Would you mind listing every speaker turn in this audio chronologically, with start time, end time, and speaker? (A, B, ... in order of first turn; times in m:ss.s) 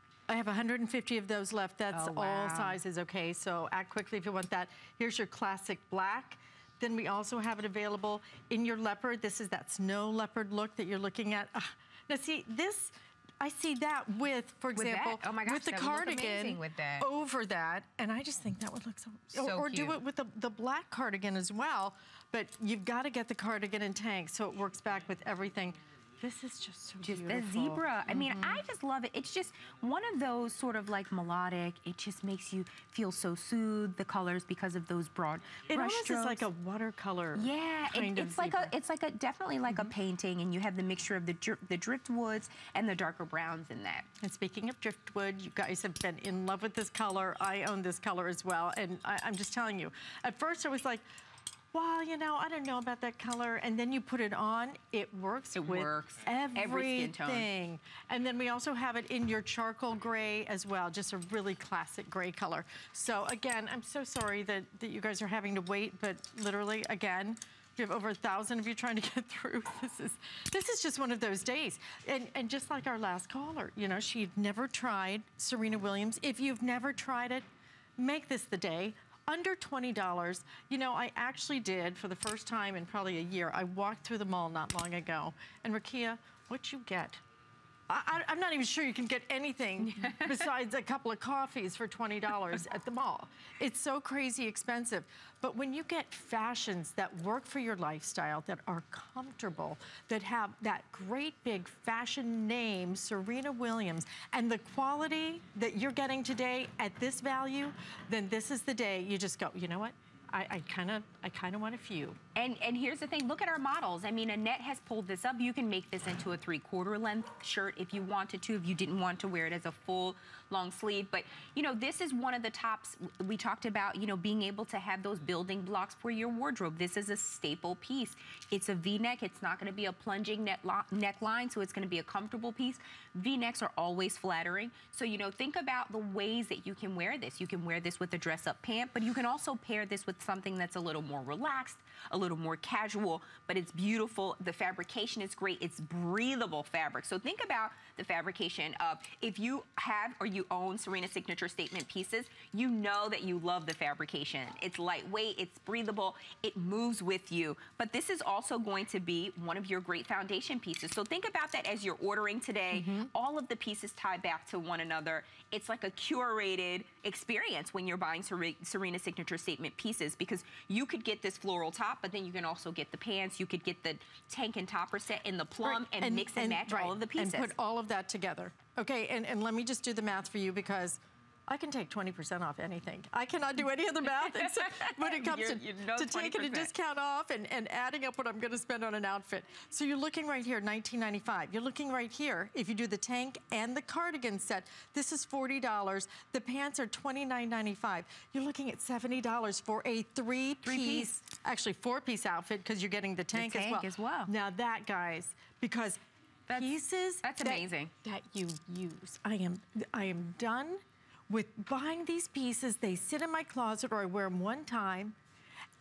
0:00.3-0:28.6 A
0:01.9-0:02.8 B
0:14.8-0:17.1 B
0:19.3-0:20.0 B
0:27.0-0:36.5 B
0:35.7-0:38.7 A
0:37.3-0:44.1 B
0:39.7-0:39.9 A
0:44.2-0:51.0 A
0:51.7-1:17.4 A
0:55.5-0:57.5 B
1:18.0-1:27.2 A
1:27.9-1:52.2 A
1:29.8-1:30.5 B
1:52.3-2:57.5 B
2:42.7-2:43.1 A
2:55.6-3:26.0 A
3:04.0-3:06.7 B
3:20.6-3:21.1 B
3:23.3-3:24.3 B
3:26.5-3:35.2 A
3:27.2-3:27.9 B